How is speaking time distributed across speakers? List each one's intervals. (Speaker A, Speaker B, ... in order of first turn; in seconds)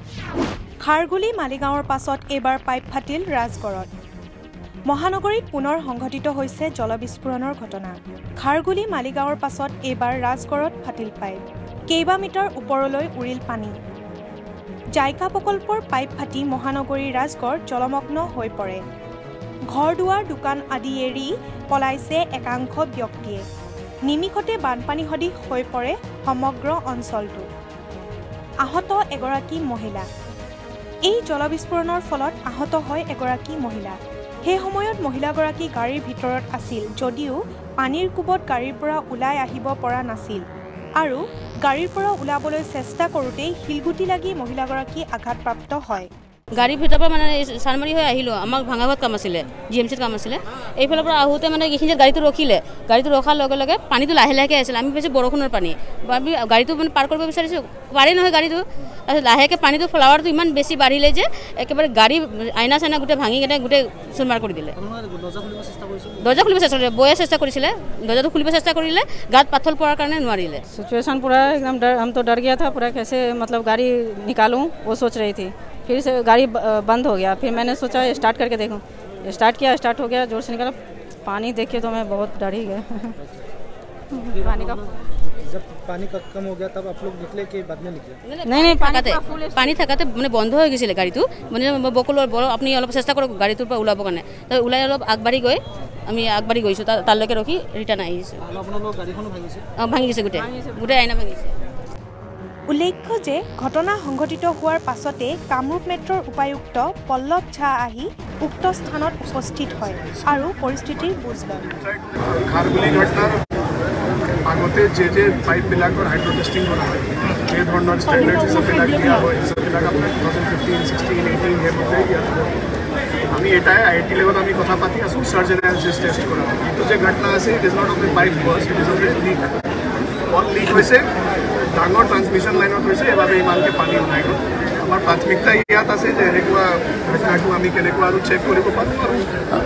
Speaker A: 0.8-3.9, 4.9-13.8, 15.0-18.8, 19.7-23.4, 24.1-27.5, 28.6-30.1, 31.1-40.4, 41.0-46.1, 102.7-111.7
Speaker B: 46.5-64.8, 66.2-70.6, 88.3-98.5, 99.8-101.6
Speaker C: 64.8-66.2, 85.4-88.2, 98.5-99.6
Speaker D: 70.7-83.2, 84.1-85.0, 88.5-89.8
Speaker E: 110.0-110.5, 111.7-113.4, 114.5-122.6, 123.3-129.5, 130.3-131.1, 131.7-139.3